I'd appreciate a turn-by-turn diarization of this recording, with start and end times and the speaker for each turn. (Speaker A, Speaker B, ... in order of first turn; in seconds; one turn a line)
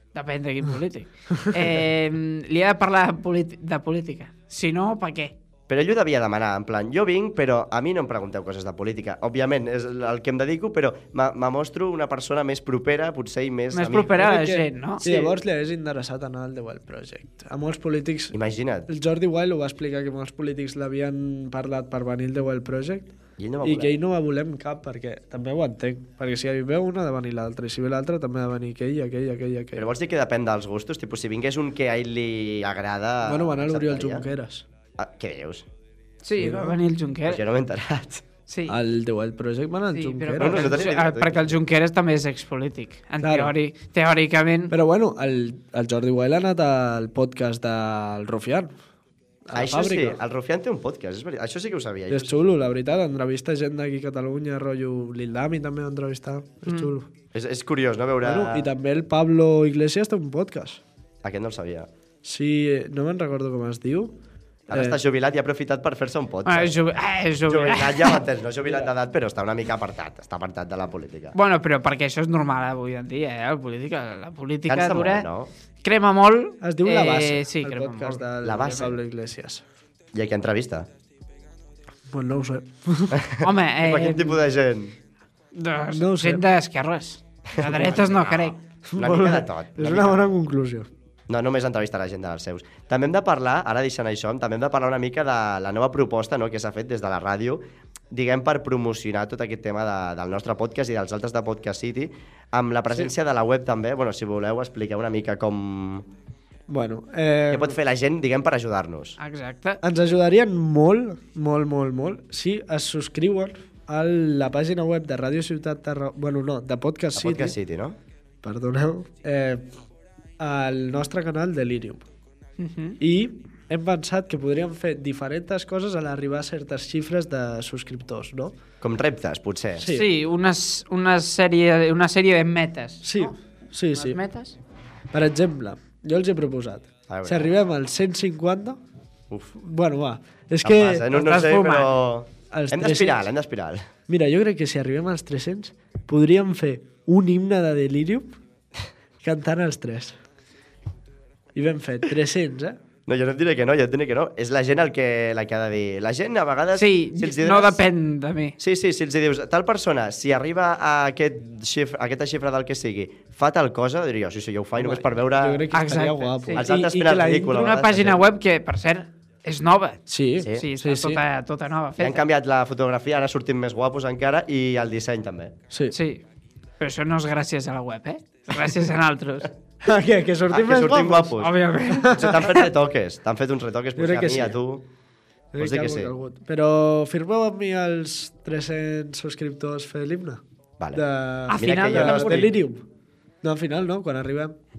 Speaker A: 0.1-5.3
Speaker B: 5.7-14.2
Speaker A: 13.7-15.1
Speaker C: 14.1-18.4
Speaker B: 15.0-15.3
Speaker B: 18.3-18.9
Speaker C: 18.9-29.9
Speaker B: 23.4-24.0
Speaker B: 29.8-34.3
Speaker C: 33.2-34.6
Speaker B: 35.0-35.6
Speaker A: 36.2-37.4
Speaker C: 36.4-36.8
Speaker B: 37.3-38.2
Speaker A: 38.5-38.8
Speaker C: 38.7-40.8
Speaker A: 39.9-44.8
Speaker B: 40.4-41.6
Speaker C: 43.2-43.5
Speaker C: 44.7-48.7
Speaker C: 49.5-50.2
Speaker B: 49.5-52.4
Speaker C: 52.1-57.1
Speaker A: 56.7-56.9
Speaker B: 57.3-58.7
Speaker C: 58.2-60.8
Speaker B: 61.2-61.9
Speaker C: 62.2-64.1
Speaker B: 64.7-66.8
Speaker C: 64.7-65.0
Speaker A: 66.5-68.2
Speaker B: 67.5-71.4
Speaker C: 68.7-68.9
Speaker A: 71.3-75.3
Speaker B: 74.7-75.5
Speaker A: 75.8-78.9
Speaker C: 76.6-79.6
Speaker B: 78.4-79.0
Speaker B: 80.1-80.9
Speaker C: 82.1-83.2
Speaker B: 83.2-85.0
Speaker A: 83.4-84.4
Speaker A: 85.5-88.6
Speaker C: 85.9-86.5
Speaker B: 87.5-90.2
Speaker C: 88.9-90.9
Speaker B: 91.3-106.0
Speaker C: 106.7-107.8
Speaker B: 107.5-109.2
Speaker A: 109.2-109.8
Speaker C: 109.8-117.6
Speaker B: 117.2-118.0
Speaker C: 118.4-119.7
Speaker C: 120.4-122.0
Speaker A: 122.6-123.0
Speaker C: 123.0-128.5
Speaker B: 128.8-129.9
Speaker C: 129.8-130.1
Speaker A: 129.8-133.4
Speaker C: 133.0-134.2
Speaker A: 133.9-134.6
Speaker C: 135.1-138.8
Speaker B: 137.1-137.6
Speaker C: 139.6-141.2
Speaker B: 140.6-143.8
Speaker A: 141.1-141.9
Speaker C: 142.5-143.3
Speaker C: 144.1-148.3
Speaker C: 149.2-150.2
Speaker C: 151.6-152.8
Speaker B: 153.1-157.9
Speaker A: 156.7-158.6
Speaker B: 158.6-165.7
Speaker C: 164.8-166.8
Speaker A: 165.7-172.2
Speaker B: 166.5-168.2
Speaker C: 170.1-171.2
Speaker B: 172.0-175.5
Speaker C: 175.7-176.0
Speaker A: 175.9-176.2
Speaker A: 176.8-179.5
Speaker C: 179.8-182.4
Speaker B: 180.5-181.6
Speaker A: 181.4-182.7
Speaker B: 182.2-184.9
Speaker C: 184.0-184.6
Speaker C: 185.5-190.4
Speaker B: 185.6-186.1
Speaker C: 190.9-192.9
Speaker A: 191.5-192.5
Speaker B: 191.6-192.6
Speaker C: 193.4-194.6